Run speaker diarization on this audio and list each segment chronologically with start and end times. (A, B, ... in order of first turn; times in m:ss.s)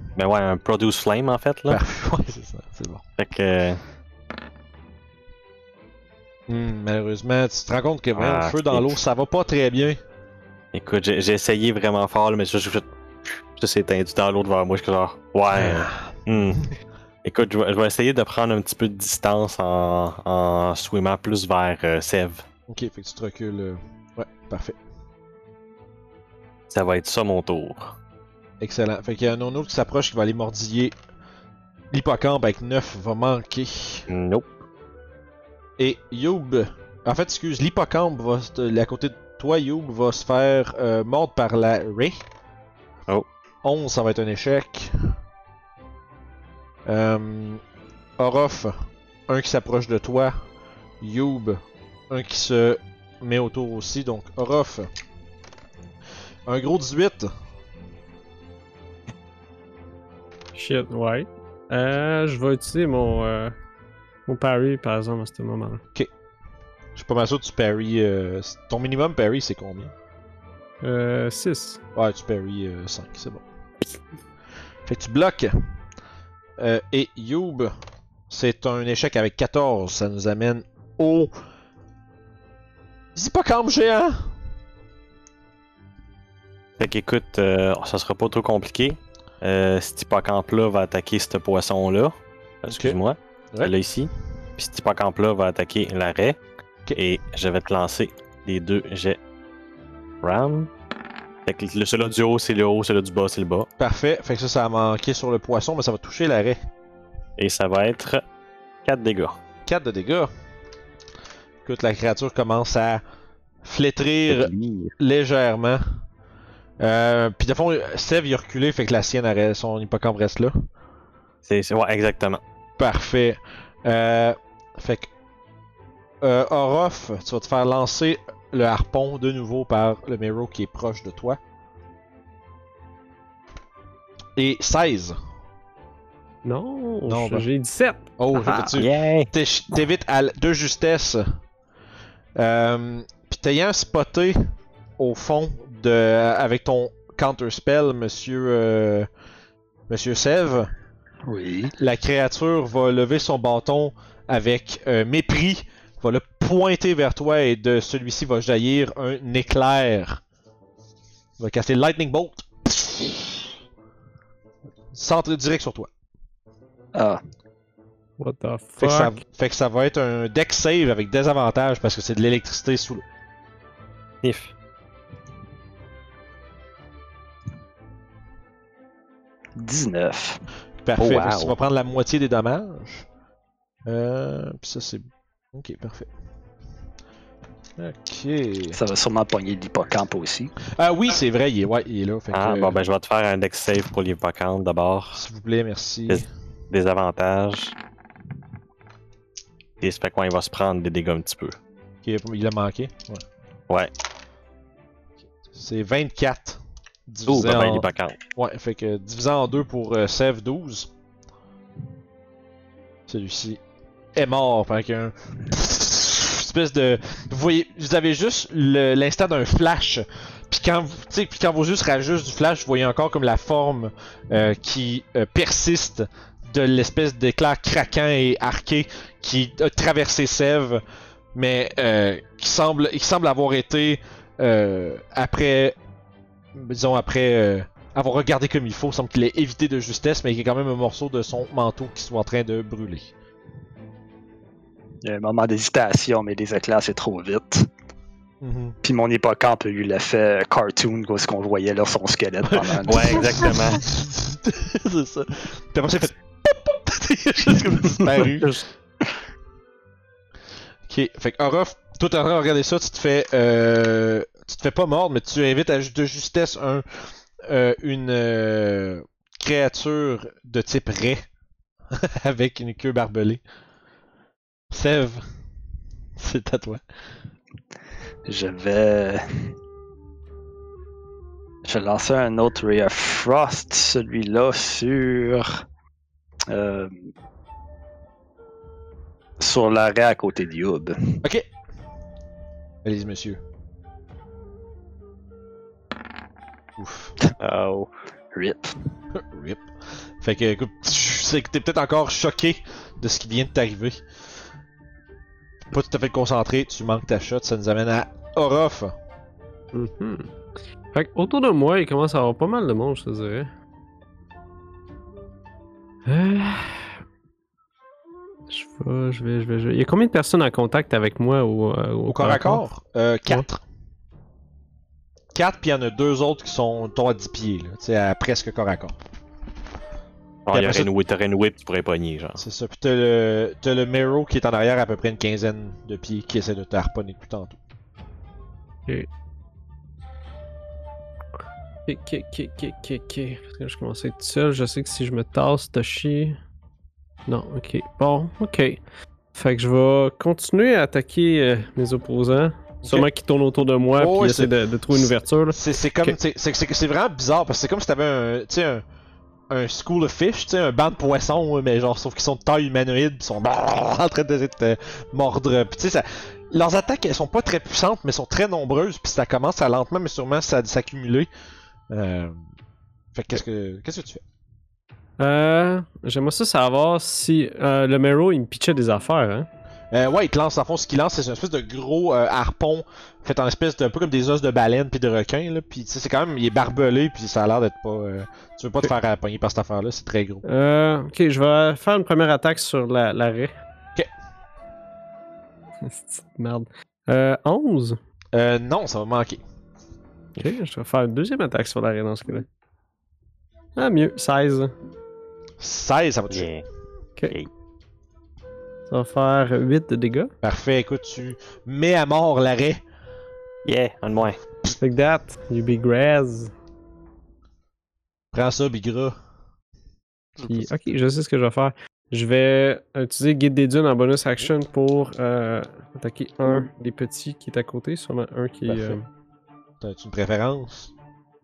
0:00.2-0:01.8 A
0:01.7-0:03.0 B
0:03.2-0:03.8 A
0:06.5-0:10.0 B
0:08.1-0:09.0 A
0:10.7-0:16.6 A
0:15.5-0:16.7 B
0:17.2-0:22.4 A
0:22.7-0:24.8 B
0:26.7-0:28.0 A
0:28.6-0:30.9 B
0:31.9-0:34.1 B
0:34.1-0:34.6 A
0:35.8-0:42.2 B
0:43.6-0:45.1 B
0:46.8-0:47.6 B
0:48.2-0:48.8 B
0:49.3-0:50.4 B
0:51.0-0:54.9 B
0:56.4-0:57.3 B
1:00.5-1:03.5 C
1:04.2-1:05.8 C
1:07.0-1:09.9 B
1:10.8-1:11.8 C
1:12.0-1:13.4 B
1:14.8-1:15.6 B
1:16.6-1:17.7 B
1:18.3-1:21.3 B
1:23.1-1:24.3 B
1:26.8-1:36.4 A
1:32.6-1:33.0 B
1:36.9-1:39.2 A
1:40.2-1:40.7 A
1:41.4-1:43.7 A
1:43.8-1:46.6 B
1:47.4-1:48.2 A
1:48.8-1:49.4 A
1:49.6-1:50.3 B
1:51.6-1:53.0 B
1:53.6-1:55.8 B
1:54.3-1:54.9 A
1:56.8-2:00.5 B
2:01.4-2:02.4 A
2:02.8-2:05.1 B
2:06.2-2:11.4 B
2:14.4-2:15.2 B
2:16.4-2:18.2 C
2:17.0-2:17.5 B
2:18.2-2:21.3 B
2:18.4-2:19.3 A
2:22.4-2:24.4 B
2:25.0-2:29.1 B
2:29.9-2:30.7 B
2:31.2-2:31.7 D
2:31.8-2:40.2 B
2:41.4-2:43.4 B
2:44.9-2:45.9 B
2:46.9-2:47.2 D
2:48.2-2:49.2 C
2:48.8-2:53.0 B
2:54.2-2:54.5 A
2:59.6-3:00.4 D
3:00.8-3:03.0 B
3:01.0-3:01.5 A
3:03.8-3:06.1 B
3:07.8-3:08.8 B
3:08.7-3:10.5 D
3:10.7-3:12.8 B
3:12.3-3:15.2 A
3:15.1-3:16.3 B
3:16.1-3:17.7 A
3:19.8-3:21.6 A
3:22.0-3:23.2 B
3:25.5-3:30.9 B
3:27.3-3:28.2 A
3:33.1-3:33.6 B
3:34.2-3:50.8 B
3:51.3-3:55.8 B
3:56.5-4:03.1 B
4:05.0-4:07.7 D
4:08.4-4:08.8 B
4:08.8-4:13.5 D
4:12.5-4:18.5 B
4:12.8-4:13.8 A
4:18.1-4:18.6 A
4:20.9-4:31.2 B
4:31.9-4:33.4 B
4:34.7-4:35.2 B
4:36.2-4:36.8 B
4:38.2-4:39.5 D
4:41.6-4:45.6 D
4:46.5-4:47.1 D
4:49.4-4:51.2 D
4:52.8-4:53.4 B
4:56.8-4:57.1 B
4:57.4-4:57.9 A
4:58.3-4:58.7 D
4:59.1-4:59.6 B
5:00.2-5:04.0 B
5:05.7-5:09.0 B
5:09.7-5:10.4 C
5:10.9-5:13.5 C
5:16.0-5:17.0 C
5:18.5-5:22.6 C
5:22.1-5:23.6 B
5:25.3-5:28.9 B
5:30.5-5:32.4 A
5:30.5-5:30.9 B
5:32.4-5:37.6 B
5:41.8-5:46.4 C
5:47.3-5:48.8 C
5:49.3-5:56.2 C
5:52.8-5:53.1 B
5:54.0-5:58.8 B
5:59.5-6:11.3 B
6:11.9-6:12.4 B
6:13.1-6:14.2 B
6:15.2-6:19.5 C
6:19.9-6:30.4 B
6:30.4-6:33.5 C
6:35.8-6:38.0 C
6:38.3-6:39.4 B
6:40.4-6:42.4 C
6:43.8-6:44.7 C
6:45.6-6:46.5 B
6:46.3-6:46.6 A
6:48.9-6:50.3 C
6:50.4-6:52.8 B
6:53.6-6:54.4 A
6:54.8-6:56.5 C
6:58.3-6:59.2 B
7:00.4-7:00.9 B
7:00.4-7:09.1 C
7:08.6-7:09.0 B
7:09.8-7:10.9 B